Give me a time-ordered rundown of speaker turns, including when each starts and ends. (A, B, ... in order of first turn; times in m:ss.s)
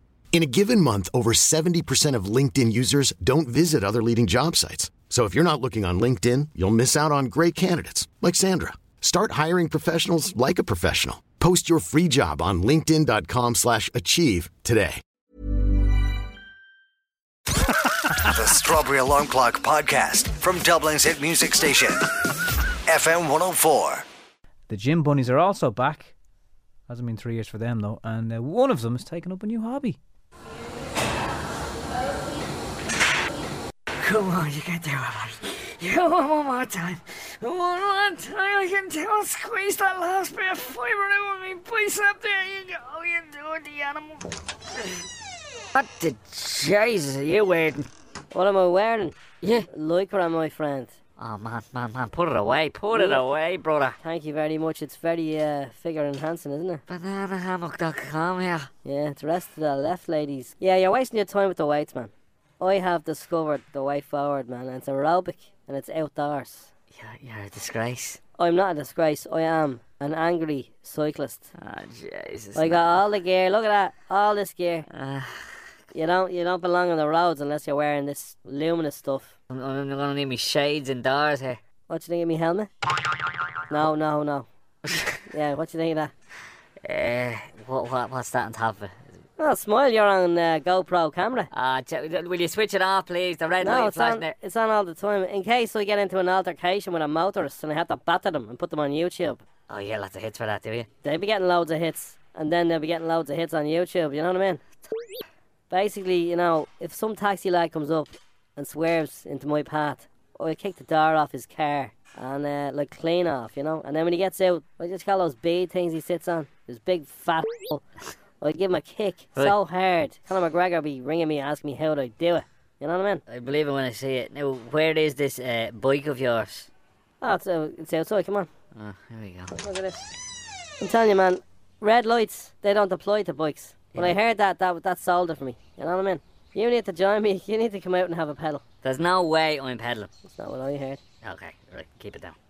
0:00.3-0:15.0 A
0:18.2-0:22.0 B
0:22.9-0:24.0 B
0:24.7-0:26.1 C
0:26.9-0:30.0 C
0:34.0-0:44.3 D
0:45.7-0:47.9 D
0:48.3-0:50.9 E
0:51.2-0:54.0 D
0:52.9-0:53.2 E
0:54.0-0:56.8 E
0:56.9-0:58.7 D
0:58.8-1:06.7 E
1:06.9-1:08.2 D
1:08.4-1:11.4 E
1:11.6-1:13.0 D
1:12.5-1:14.8 E
1:14.9-1:15.3 D
1:15.9-1:19.3 E
1:19.5-1:21.6 D
1:21.9-1:22.7 E
1:23.7-1:24.5 E
1:25.3-1:26.1 E
1:26.8-1:29.1 D
1:29.4-1:31.5 E
1:31.5-1:34.3 D
1:33.6-1:39.4 E
1:39.7-1:40.9 D
1:41.0-1:44.6 E
1:45.7-1:57.8 E
1:58.4-2:03.2 E
2:03.3-2:06.7 D
2:07.2-2:08.5 E
2:08.7-2:09.5 D
2:09.6-2:10.0 E
2:10.8-2:18.6 E
2:18.8-2:20.1 D
2:20.2-2:21.0 E
2:21.2-2:22.4 D